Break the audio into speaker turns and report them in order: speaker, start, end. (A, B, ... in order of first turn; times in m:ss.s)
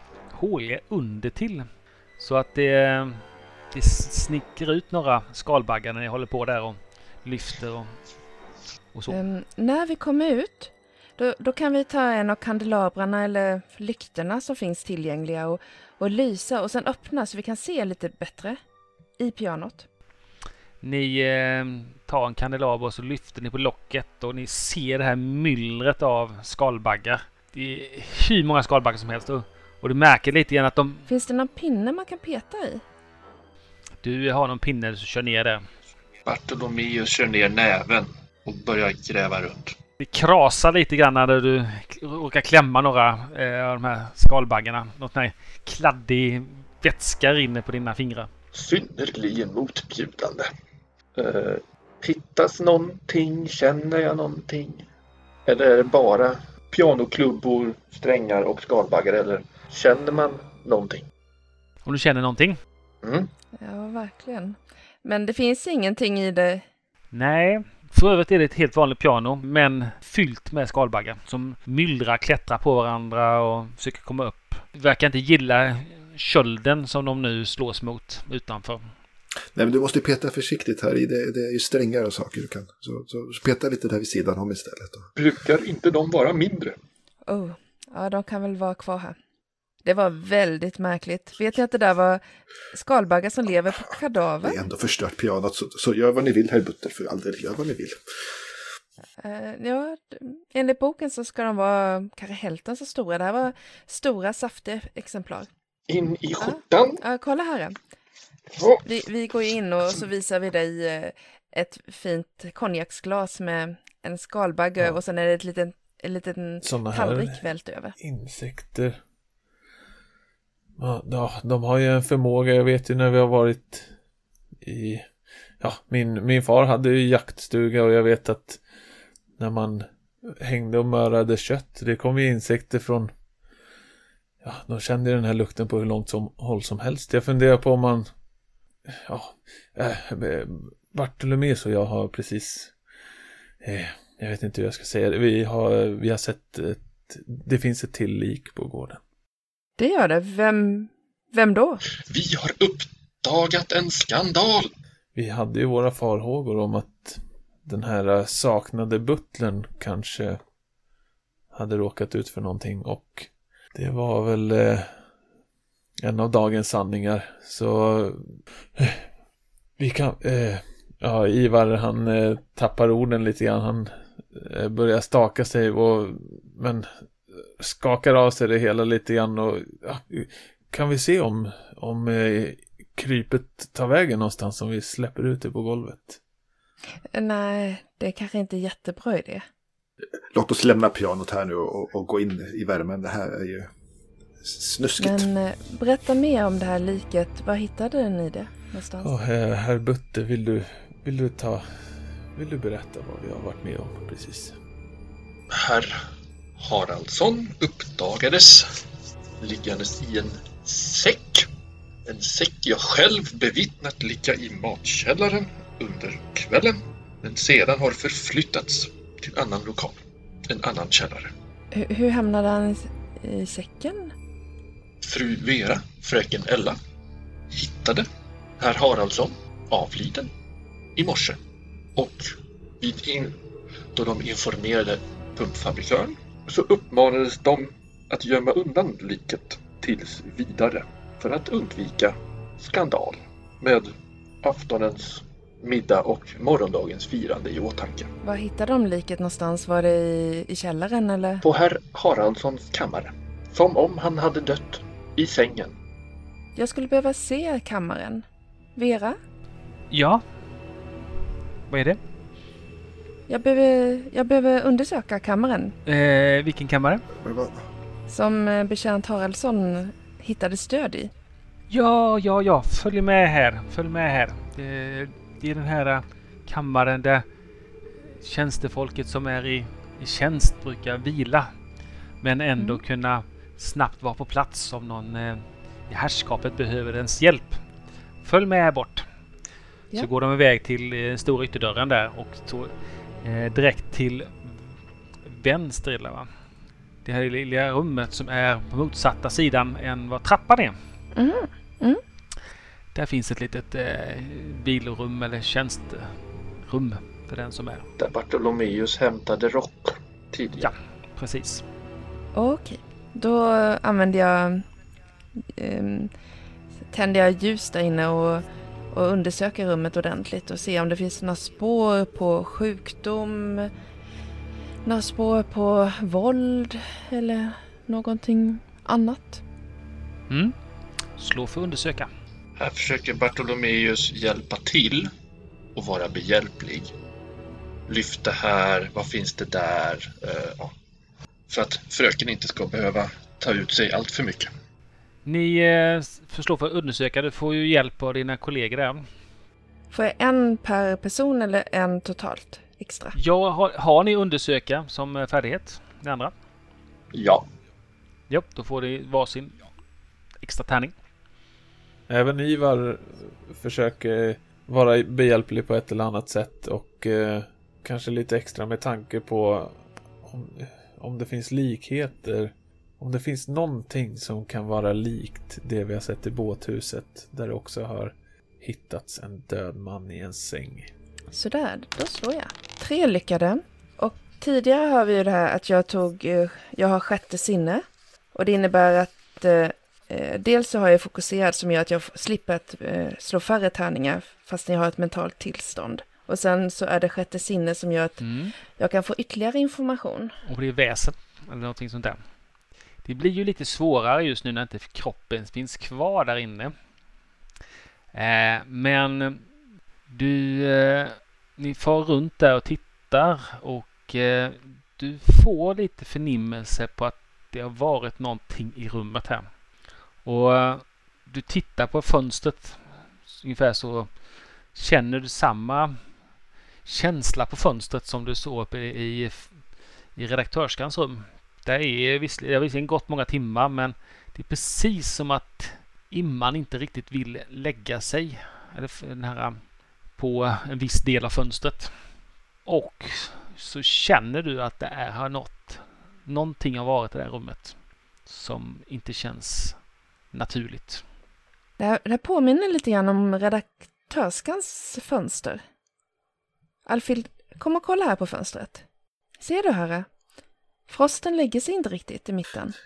0:00.3-0:08.0 A
0:08.9-0:09.2 A
0:09.1-0:18.6 B
0:19.2-0:19.9 B
0:20.8-0:31.1 A
0:31.1-0:32.8 B
0:34.0-0:35.7 A
0:36.2-0:39.8 C
0:40.0-0:48.3 A
0:48.5-0:50.5 C
0:51.2-0:54.8 C
0:55.4-1:01.0 C
1:01.8-1:02.6 A
1:03.0-1:03.3 C
1:03.6-1:06.6 B
1:07.1-1:18.9 A
1:19.5-1:25.1 D
1:25.2-1:26.8 C
1:27.3-1:29.2 B
1:29.8-1:34.6 B
1:34.4-1:38.0 D
1:39.2-1:45.5 B
1:45.9-1:47.0 C
1:46.4-1:47.8 B
1:48.6-1:48.8 C
1:48.8-1:58.0 B
1:56.6-1:57.4 E
1:58.0-1:59.0 E
2:00.8-2:03.9 E
2:04.6-2:05.1 E
2:05.6-2:08.6 E
2:09.4-2:13.1 E
2:14.4-2:18.1 E
2:18.8-2:22.7 E
2:23.6-2:29.0 E
2:29.8-2:31.8 B
2:32.0-2:34.7 C
2:35.1-2:40.4 E
2:41.5-2:44.9 E
2:46.0-2:49.0 E
2:49.8-3:06.2 E
3:07.1-3:09.4 B
3:10.1-3:13.7 D
3:14.4-3:15.3 D
3:15.0-3:19.1 B
3:19.0-3:21.6 E
3:22.3-3:24.6 E
3:25.5-3:26.0 C
3:26.6-3:28.7 C
3:29.4-3:31.5 C
3:32.0-3:41.3 C
3:41.7-3:44.1 B
3:45.0-3:46.8 C
3:47.5-3:48.0 C
3:48.6-3:50.3 C
3:51.0-3:51.4 C
3:52.0-3:53.4 C
3:53.9-4:03.9 C
4:04.4-4:08.1 C
4:08.2-4:11.4 B
4:11.4-4:15.7 C
4:16.6-4:19.2 B
4:19.9-4:20.2 A
4:21.7-4:22.0 A
4:23.3-4:25.8 B
4:25.8-4:27.0 A
4:27.1-4:27.6 D
4:28.1-4:31.1 B
4:31.7-4:37.2 A
4:38.0-4:41.5 A
4:42.2-4:47.6 A
4:48.2-4:49.0 A
4:49.9-4:56.3 A
4:57.0-5:00.8 A
5:01.1-5:02.0 B
5:02.9-5:07.8 A
5:08.0-5:10.7 C
5:10.6-5:11.6 A
5:12.3-5:14.6 B
5:15.4-5:16.1 B
5:16.9-5:23.7 B
5:24.8-5:29.4 B
5:30.3-5:30.5 A
5:31.2-5:32.1 A
5:32.6-5:35.1 C
5:35.7-5:36.9 C
5:37.9-5:40.7 C
5:41.5-5:44.5 C
5:45.2-5:49.0 A
5:49.9-5:53.1 B
5:53.1-5:56.3 A
5:57.1-5:57.4 C
5:58.3-5:59.6 A
6:00.4-6:01.0 A
6:02.1-6:20.9 E
6:21.3-6:40.4 B
6:38.2-6:38.5 A
6:40.4-6:42.2 A
6:43.0-6:46.7 A
6:48.1-6:49.5 A
6:50.1-6:59.5 A
7:00.2-7:06.0 A
7:06.8-7:21.9 A
7:22.6-7:29.8 A
7:30.3-7:31.0 A
7:31.8-7:35.6 B
7:36.8-7:38.8 B
7:39.4-7:40.1 B
7:40.9-7:42.8 B